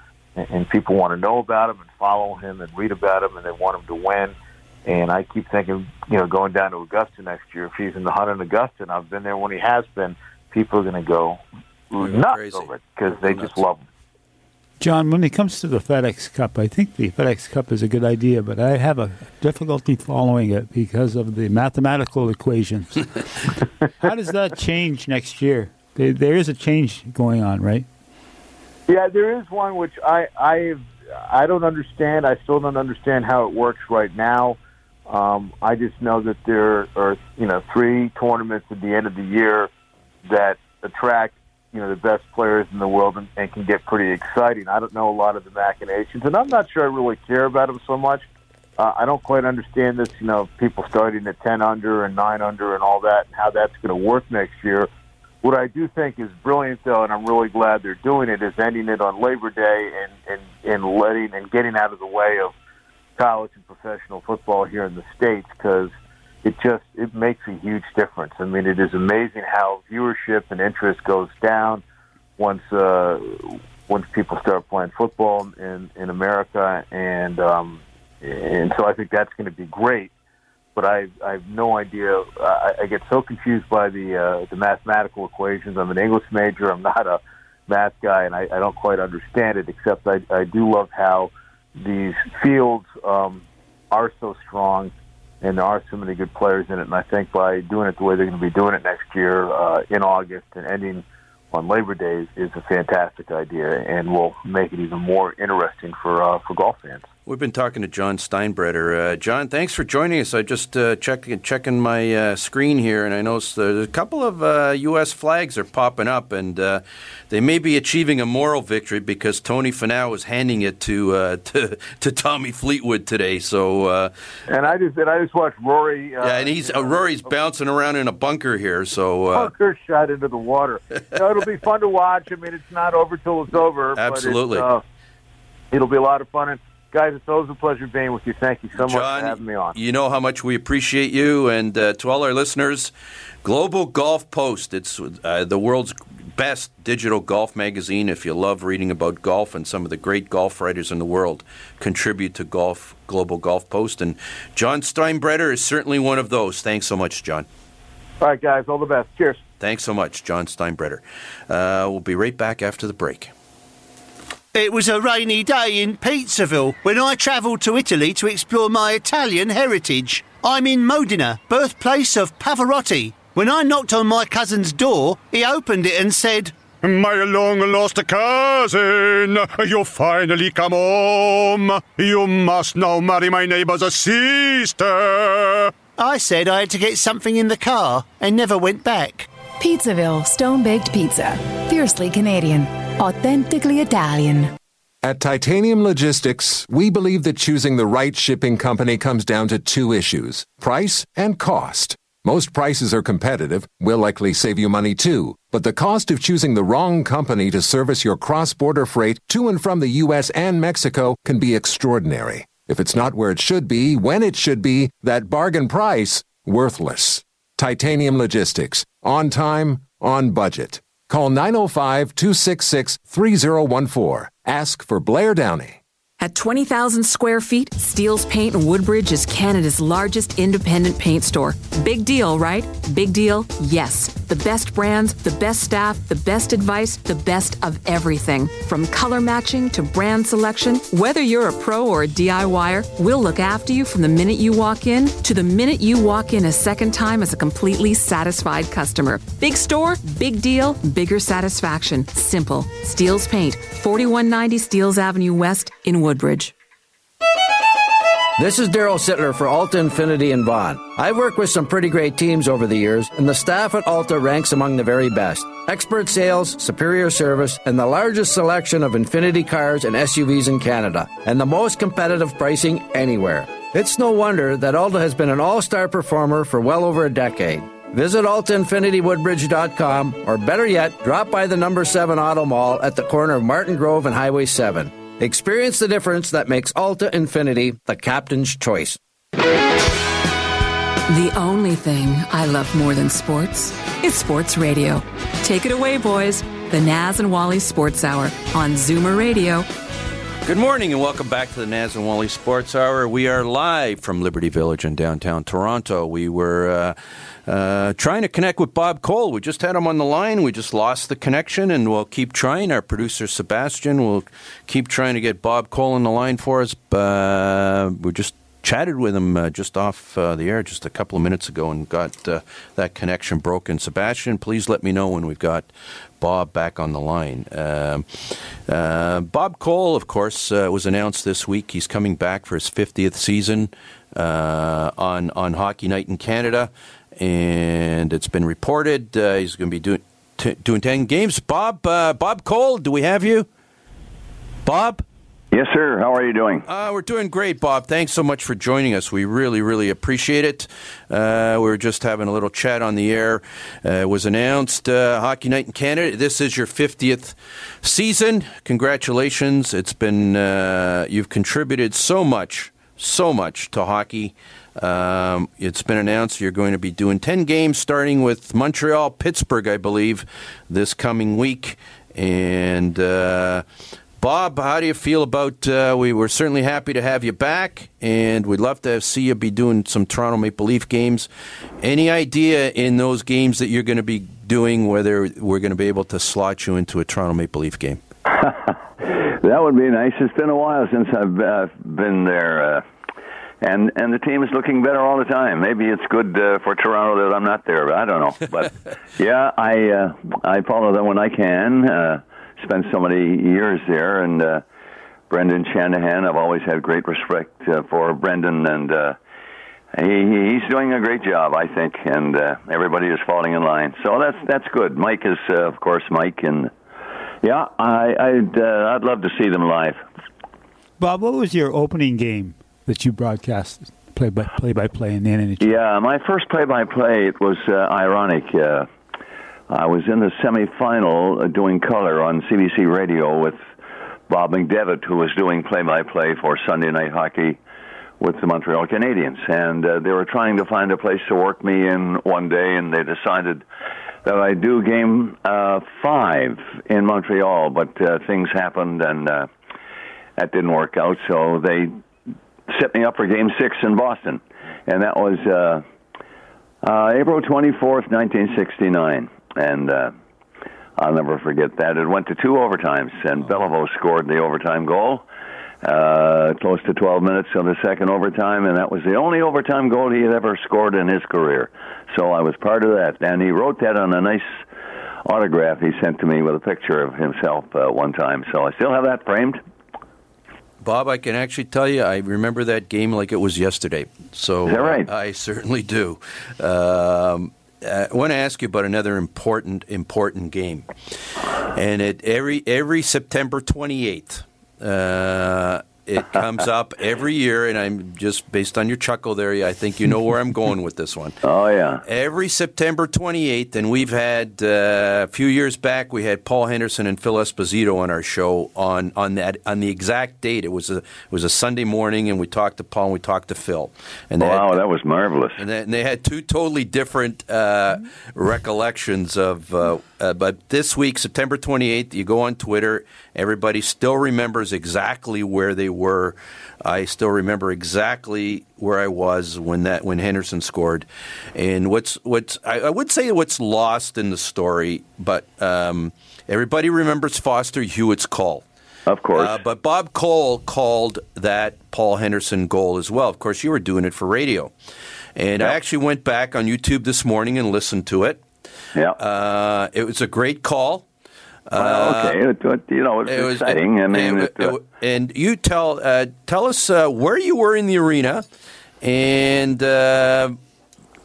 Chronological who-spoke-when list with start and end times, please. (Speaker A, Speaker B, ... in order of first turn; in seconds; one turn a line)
Speaker A: 0.3-13.8
Speaker B: 12.0-13.6
Speaker C: 14.8-23.1
Speaker C: 24.0-27.9
Speaker A: 28.9-39.7
Speaker A: 40.2-48.2
Speaker A: 48.8-54.9
Speaker A: 55.4-62.5
Speaker A: 63.1-65.9
Speaker A: 66.4-71.8
Speaker A: 72.4-80.1
Speaker A: 80.7-107.1
Speaker B: 107.3-124.1
Speaker A: 124.5-127.1
Speaker B: 126.2-129.5
Speaker A: 129.3-134.8
Speaker B: 133.9-134.7
Speaker A: 135.7-139.8
Speaker B: 138.8-142.9
Speaker B: 143.4-157.5
Speaker A: 158.2-159.4
Speaker B: 159.6-163.3
Speaker D: 164.5-176.6
Speaker E: 176.8-185.7
Speaker D: 186.0-189.3
Speaker F: 189.6-194.5
Speaker G: 195.0-225.8
Speaker H: 226.2-256.5
Speaker I: 258.4-289.0
Speaker H: 291.1-299.7
Speaker B: 300.4-306.9
Speaker B: 307.4-343.5
Speaker B: 344.6-345.0
Speaker J: 345.5-346.6
Speaker B: 346.7-373.6
Speaker B: 374.2-381.3
Speaker B: 381.8-388.0
Speaker J: 388.4-392.8
Speaker J: 393.6-404.6
Speaker J: 405.3-409.2
Speaker J: 409.9-416.7
Speaker J: 417.4-420.0
Speaker C: 421.0-425.8
Speaker J: 425.6-428.9
Speaker J: 429.7-433.6
Speaker J: 434.3-437.6
Speaker J: 438.2-443.6
Speaker J: 444.2-449.5
Speaker J: 450.4-451.9
Speaker J: 452.7-455.8
Speaker J: 456.8-460.1
Speaker J: 461.0-465.2
Speaker J: 465.8-474.6
Speaker J: 475.2-479.6
Speaker B: 480.8-490.9
Speaker J: 484.6-485.1
Speaker B: 491.6-501.4
Speaker J: 501.4-502.0
Speaker B: 502.0-514.8
Speaker J: 514.4-515.6
Speaker B: 515.5-538.6
Speaker J: 539.1-539.6
Speaker B: 539.3-544.7
Speaker B: 545.4-548.4
Speaker B: 549.1-551.0
Speaker B: 551.7-552.4
Speaker J: 551.8-554.8
Speaker B: 553.2-558.4
Speaker B: 559.0-560.6